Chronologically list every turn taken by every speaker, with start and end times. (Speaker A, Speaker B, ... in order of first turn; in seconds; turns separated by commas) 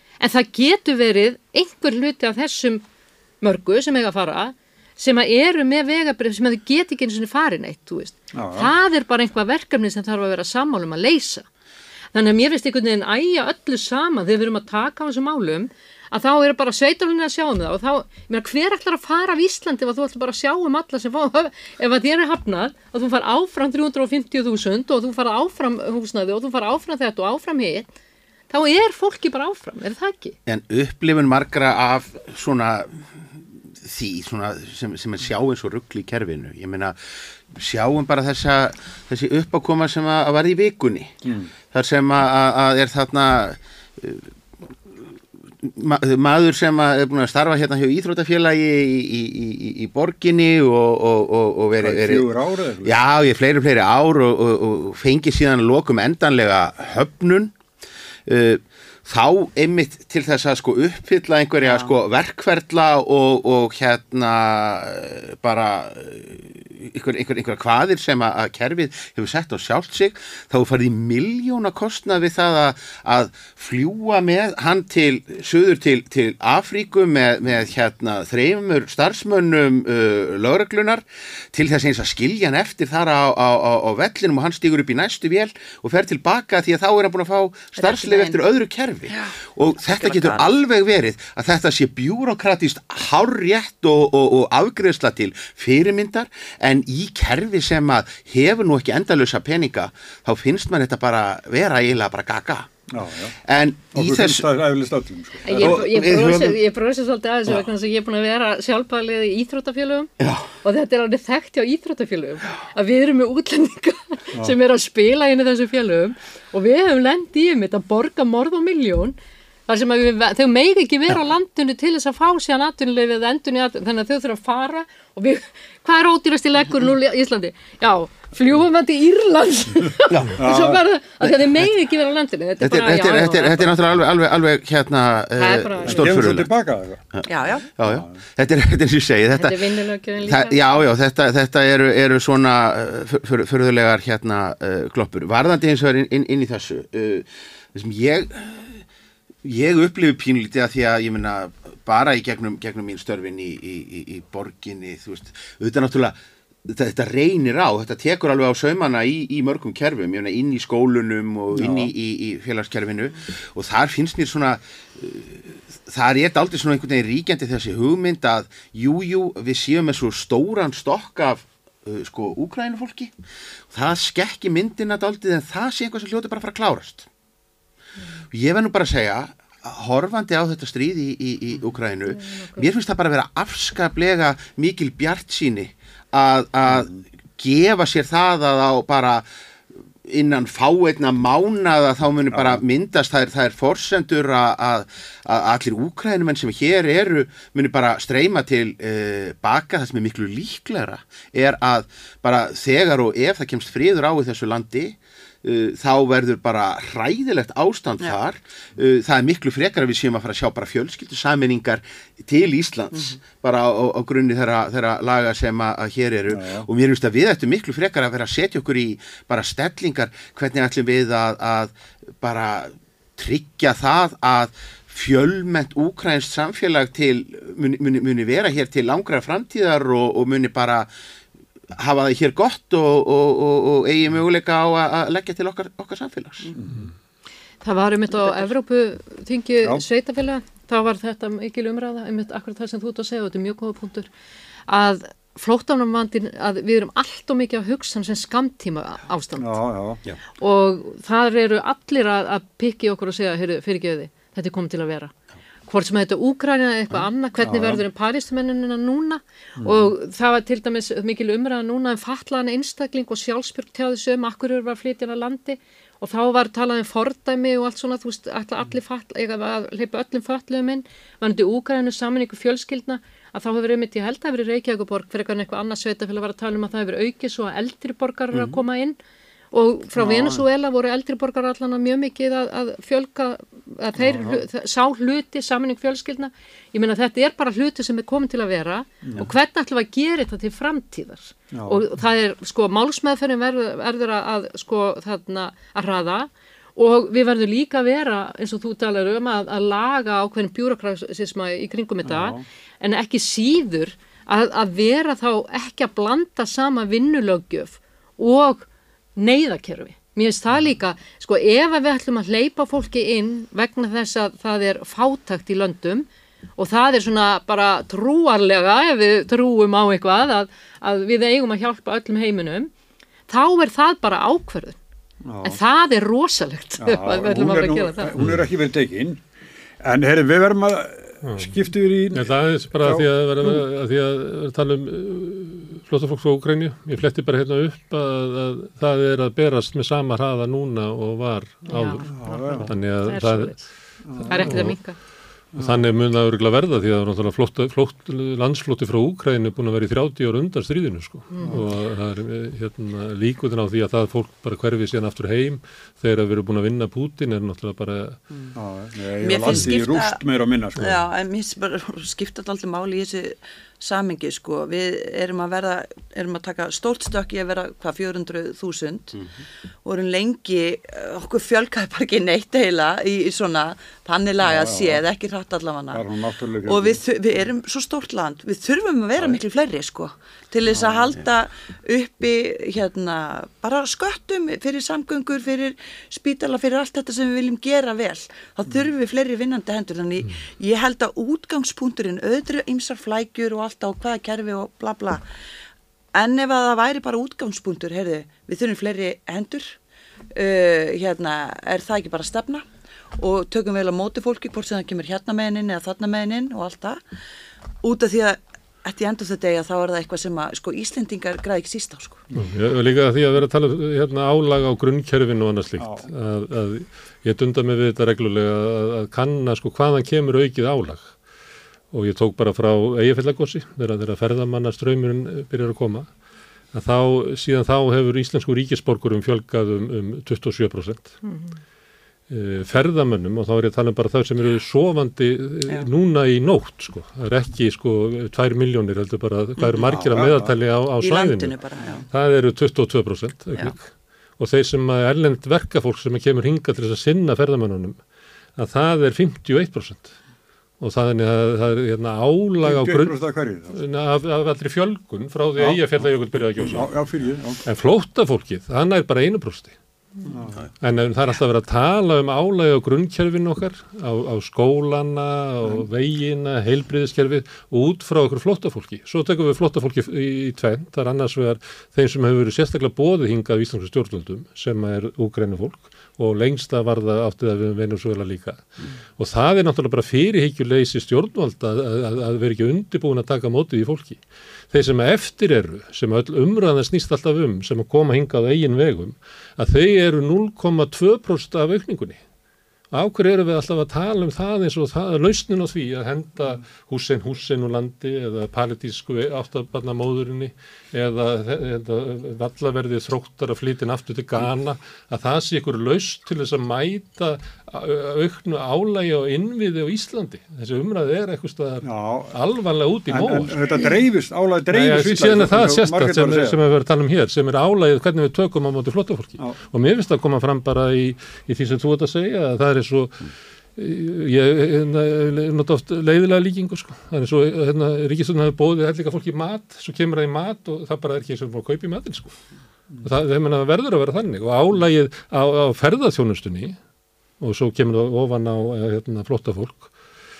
Speaker A: 0.2-2.8, Speaker A: 3.4-11.4, Speaker B: 8.3-8.7, Speaker A: 12.1-27.9, Speaker A: 28.5-30.4, Speaker C: 30.5-33.1, Speaker C: 33.8-37.0, Speaker C: 37.5-41.1, Speaker B: 41.2-41.5, Speaker C: 41.7-44.3, Speaker C: 45.6-52.3, Speaker B: 51.8-53.0, Speaker C: 52.8-57.5, Speaker C: 58.2-102.8, Speaker D: 61.6-61.9, Speaker D: 87.8-88.4, Speaker D: 89.1-90.5, Speaker B: 102.9-103.4, Speaker C: 103.4-104.5, Speaker B: 103.9-105.8, Speaker A: 105.5-110.1, Speaker C: 105.5-106.6, Speaker C: 110.2-110.5, Speaker A: 110.6-119.2, Speaker A: 119.7-133.7, Speaker C: 130.1-130.4, Speaker B: 130.3-130.8, Speaker C: 131.2-131.6, Speaker C: 132.6-136.5, Speaker A: 135.4-136.2, Speaker B: 135.8-137.0, Speaker C: 137.1-148.8, Speaker D: 137.3-137.7, Speaker B: 137.8-138.2, Speaker A: 139.4-140.8, Speaker C: 149.4-173.1, Speaker B: 161.5-161.9, Speaker C: 173.7-177.1, Speaker C: 178.3-189.2, Speaker A: 182.1-182.7, Speaker B: 186.7-187.0, Speaker C: 190.1-230.9, Speaker B: 192.3-192.6, Speaker B: 216.3-216.7, Speaker C: 231.8-236.5, Speaker B: 236.6-236.9, Speaker A: 237.6-244.1, Speaker D: 238.2-238.5, Speaker A: 244.7-249.6, Speaker B: 249.3-250.0, Speaker A: 250.4-255.1, Speaker A: 255.7-279.0, Speaker B: 257.4-257.8, Speaker B: 259.6-259.9, Speaker A: 279.5-316.1, Speaker B: 279.9-280.4, Speaker B: 284.0-284.4, Speaker B: 289.0-289.3, Speaker B: 291.5-291.8, Speaker B: 302.0-302.4, Speaker A: 316.6-322.7, Speaker A: 323.3-324.8, Speaker B: 325.2-325.6, Speaker A: 325.4-328.1, Speaker B: 326.8-329.2, Speaker B: 329.8-333.6, Speaker E: 331.2-343.5, Speaker A: 341.7-343.6, Speaker B: 342.1-342.7, Speaker B: 344.0-344.7, Speaker E: 344.2-344.8, Speaker A: 344.3-345.0, Speaker B: 345.5-345.8, Speaker E: 345.6-358.2, Speaker A: 351.3-351.6, Speaker B: 351.4-351.7, Speaker B: 358.5-361.0, Speaker D: 359.2-360.2, Speaker D: 360.8-369.2, Speaker C: 369.1-369.4, Speaker D: 369.8-376.0, Speaker B: 374.4-375.0, Speaker B: 375.9-377.0, Speaker D: 376.6-395.2, Speaker B: 380.7-381.1, Speaker D: 396.1-399.8, Speaker D: 400.3-407.0, Speaker D: 407.8-412.2, Speaker E: 412.4-421.1, Speaker B: 415.8-416.1, Speaker E: 421.9-426.1, Speaker E: 426.7-431.2, Speaker A: 431.2-431.5, Speaker E: 432.3-441.6, Speaker B: 439.8-440.5, Speaker D: 441.0-442.0, Speaker E: 442.1-448.0, Speaker E: 448.6-450.1, Speaker E: 450.8-453.2, Speaker B: 452.6-453.8, Speaker E: 453.7-456.9, Speaker B: 455.6-456.1, Speaker B: 456.7-457.6, Speaker E: 457.6-459.7, Speaker B: 460.2-460.6, Speaker E: 460.8-478.6, Speaker E: 479.2-484.2, Speaker E: 484.7-492.2, Speaker E: 492.9-513.6, Speaker B: 511.8-512.3, Speaker B: 513.1-516.6, Speaker E: 514.7-532.3, Speaker E: 533.0-536.8, Speaker E: 537.4-539.9